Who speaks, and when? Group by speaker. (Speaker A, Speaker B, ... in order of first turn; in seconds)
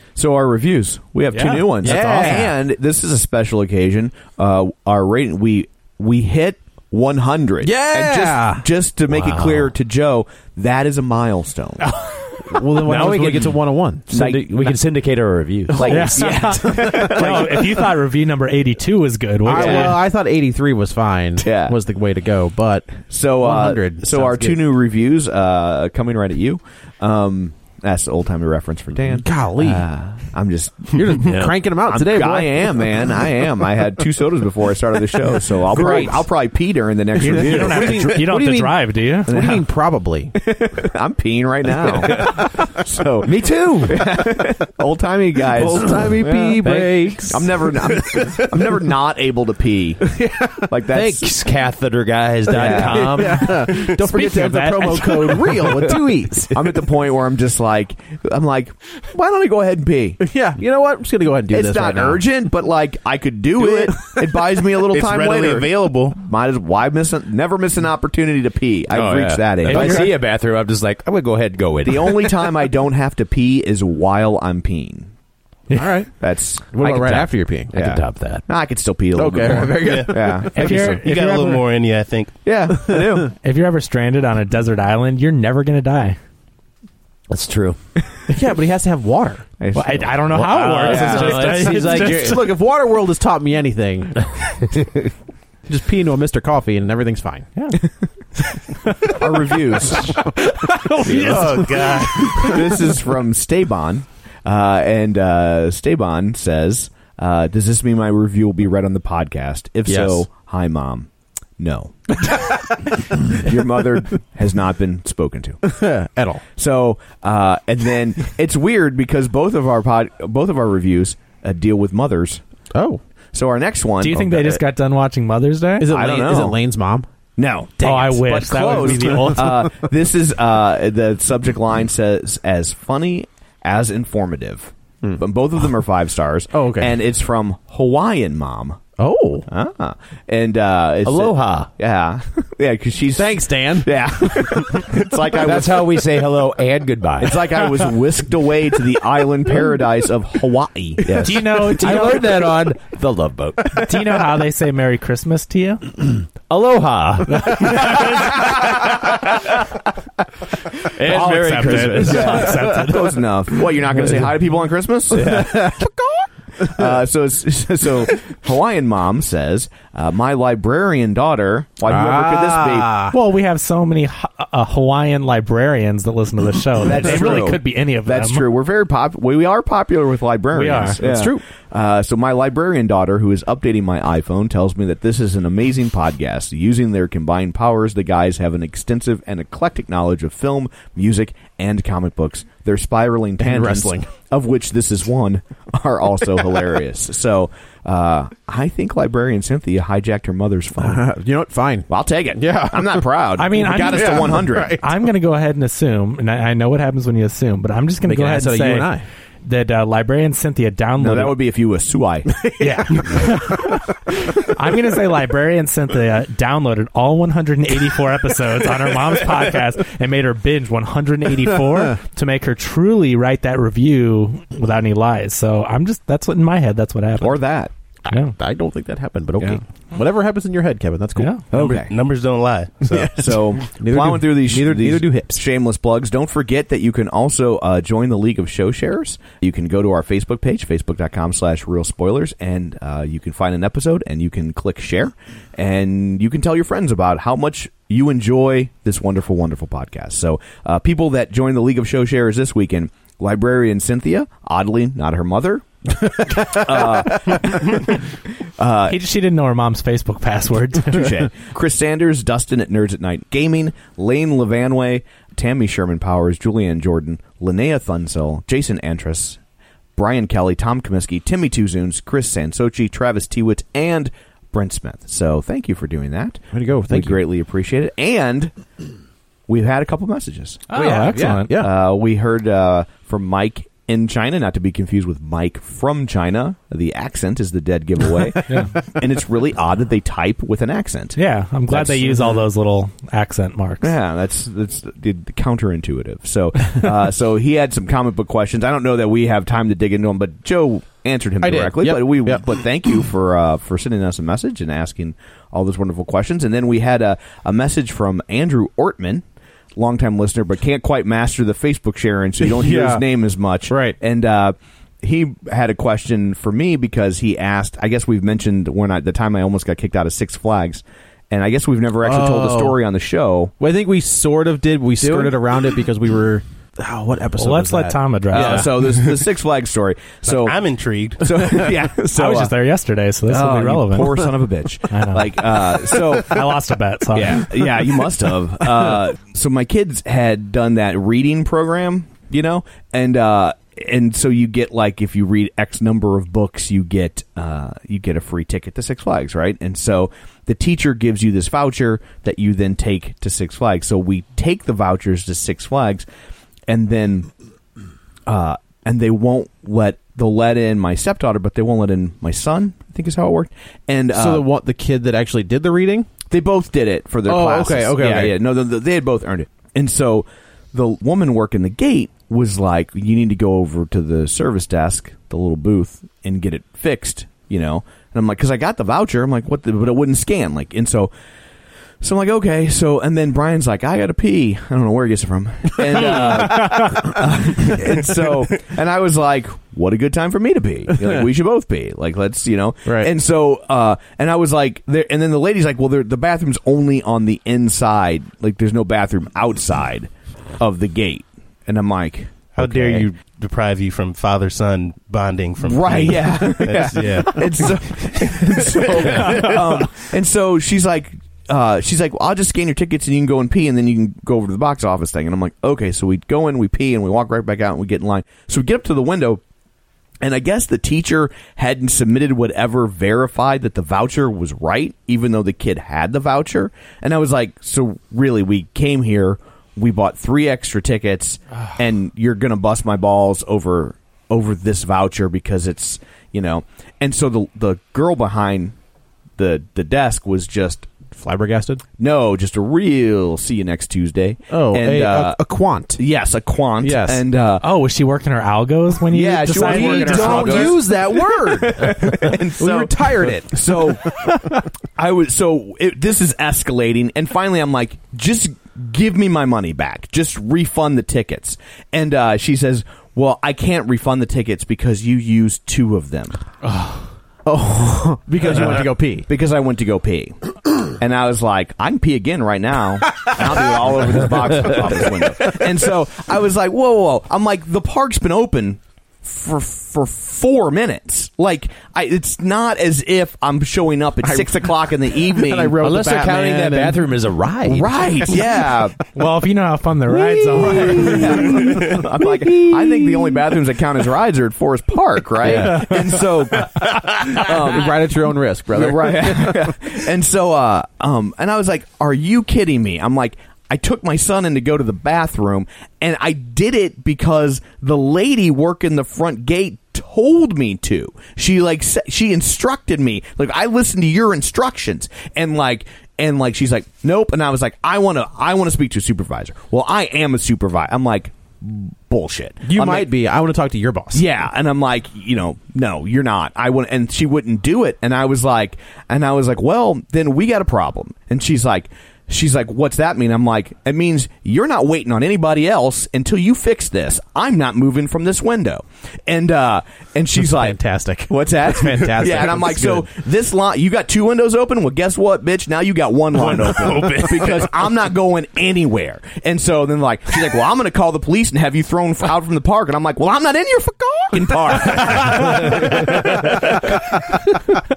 Speaker A: 0.2-11.9, 14.1-14.7, 15.7-17.9, 19.5-20.0, 21.4-21.8, 23.1-31.3, 31.8-38.2, 39.3-39.7, 40.4-50.1, 50.7-51.3, 52.5-53.5, 54.1-56.0, 56.5-60.2, 61.5-70.2, 71.8-75.1, 76.2-76.7, 77.8-81.0, 82.4-83.3, 89.6-91.6, 99.1-100.3, 101.1-101.5, 102.3-115.6, 116.6-122.4, 123.3-124.4, 125.9-126.6, 127.4-138.8, 139.5-146.0, 147.2-151.4, 161.6-165.8, 166.6-173.1, 176.8-201.0, 201.9-204.8, 211.0-212.4, 227.2-227.7, 231.5-231.9, 233.0-258.0, 258.6-259.0, 260.9-269.4, 270.0-278.5, 279.5-291.2, 291.7-292.4, 293.8-309.2, 309.8-323.5, 325.0-325.4, 328.3-330.6, 331.2-332.5, 333.3-336.5, 337.1-356.1, 356.7-357.3, 358.3-364.5, 366.3-381.1, 382.0-403.0, 405.6-419.4, 420.2-438.8, 439.4-440.9, 442.0-445.4, 446.0-447.6, 449.1-466.4, 468.4-470.4, 470.9-485.8, 487.7-489.0, 490.6-497.9, 498.7-523.1, 524.1-540.8, 541.3-557.6
Speaker B: 1.3-1.7, 11.8-12.4, 15.9-20.0, 37.2-39.3, 54.0-55.7, 80.5-81.7, 83.4-86.2, 89.7-92.4, 100.0-102.6, 124.0-125.9, 127.8-129.7, 151.2-152.3, 153.8-155.8, 157.3-158.3, 161.0-163.3, 173.1-178.5, 180.5-181.0, 203.4-208.9, 209.4-211.4, 212.6-227.4, 228.1-228.3, 231.2-231.4, 258.9-261.1, 280.7-281.5, 291.2-293.9, 327.4-328.7, 332.1-334.3, 334.9-337.5, 447.6-450.8, 489.1-491.5, 555.2-556.7
Speaker C: 1.8-2.6, 7.6-8.7, 12.4-14.1, 15.8-17.7, 19.4-24.6, 29.0-29.9, 30.9-33.3, 35.7-36.3, 37.2-40.4, 45.5-48.8, 50.1-50.7, 52.5-56.9, 60.2-62.3, 69.7-70.1, 75.7-76.1, 76.7-77.8, 79.1-80.9, 82.7-83.3, 88.3-89.5, 90.8-94.3, 95.7-97.5, 115.6-116.4, 122.7-123.0, 124.1-124.6, 125.8-127.1, 128.6-129.6, 136.5-137.0, 139.0-139.5, 143.1-145.0, 165.2-165.9, 171.9-173.2, 181.0-181.4, 193.4-194.1, 200.8-204.9, 208.0-209.1, 212.3-213.6, 221.6-221.9, 228.1-231.7, 232.9-235.4, 256.4-257.0, 276.5-277.2, 280.7-281.7, 301.4-302.6, 312.4-313.1, 313.7-314.0, 322.0-322.8, 323.6-328.9, 364.1-366.1, 367.2-368.4, 385.9-386.8, 390.9-391.3, 392.9-393.1, 441.1-441.8, 444.5-446.0, 446.8-447.3, 449.5-454.5, 466.6-469.3, 484.2-487.1, 490.3-493.5, 495.4-499.8, 522.6-524.3, 540.4-543.1
Speaker D: 1.8-2.5, 9.1-9.7, 12.8-16.3, 31.2-31.5, 41.9-42.4, 43.2-44.0, 46.6-47.2, 50.9-53.6, 68.9-72.5, 76.8-78.5, 87.3-87.8, 90.3-92.4, 109.9-110.2, 141.1-141.7, 145.4-147.5, 151.0-154.0, 156.5-159.5, 160.8-162.7, 165.1-165.7, 485.8-487.9
Speaker E: 63.7-64.2, 64.8-66.2, 79.8-82.4, 101.1-102.4, 231.5-233.3, 328.6-329.2, 330.2-331.8, 402.6-409.6